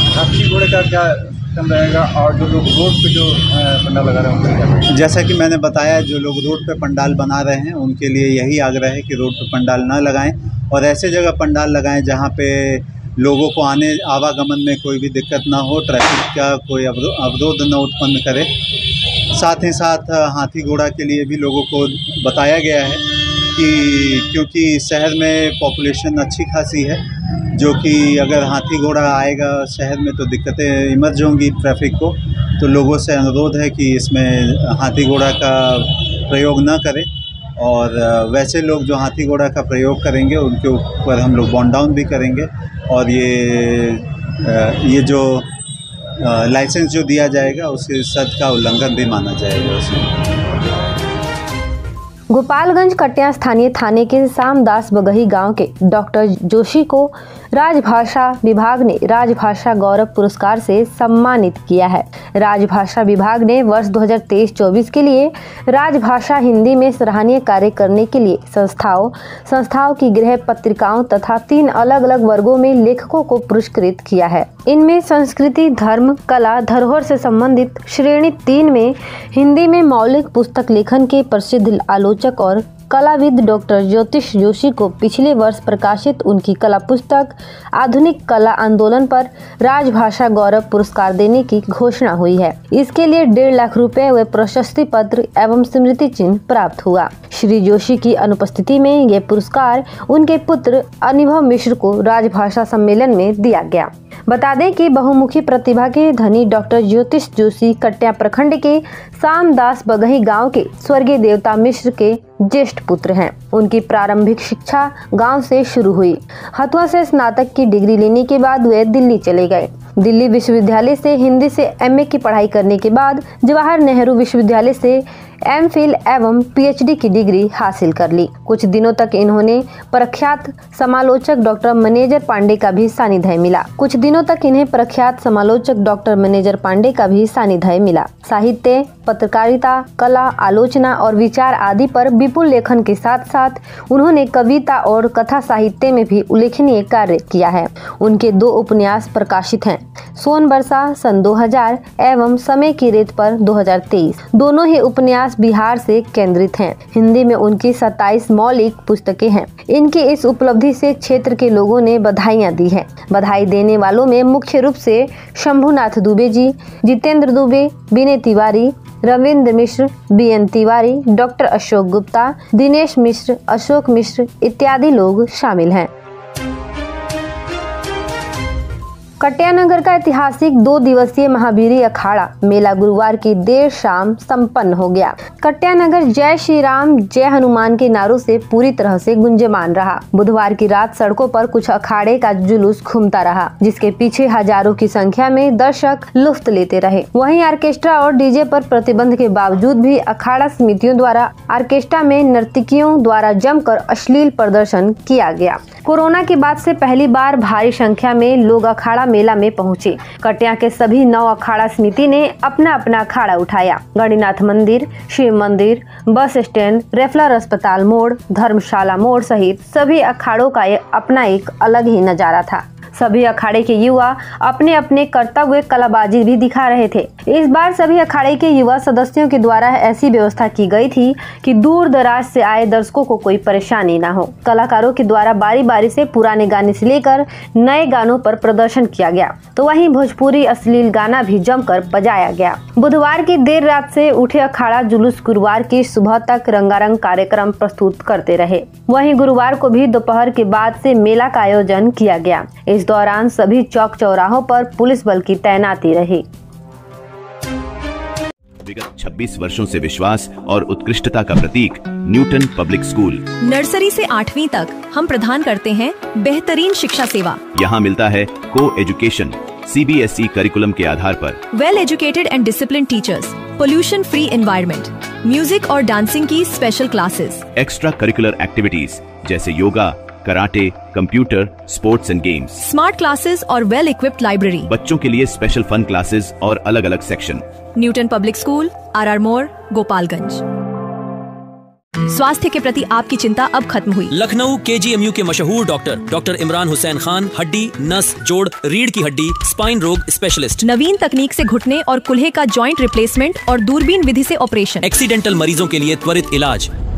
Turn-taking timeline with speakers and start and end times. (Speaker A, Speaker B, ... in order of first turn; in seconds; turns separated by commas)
Speaker A: 0.2-4.0, Speaker B: 2.4-3.3, Speaker B: 4.1-27.0, Speaker B: 27.5-37.1, Speaker B: 37.6-45.5, Speaker B: 46.2-50.1, Speaker C: 52.3-175.9, Speaker C: 179.2-256.2, Speaker D: 258.6-263.3, Speaker E: 263.4-267.4, Speaker D: 267.5-271.4, Speaker E: 271.5-277.4, Speaker D: 277.5-282.6, Speaker E: 282.6-284.7, Speaker D: 284.7-287.4, Speaker E: 287.7-290.4, Speaker E: 292.1-294.1, Speaker F: 294.1-300.6, Speaker E: 300.6-304.9, Speaker F: 304.8-306.7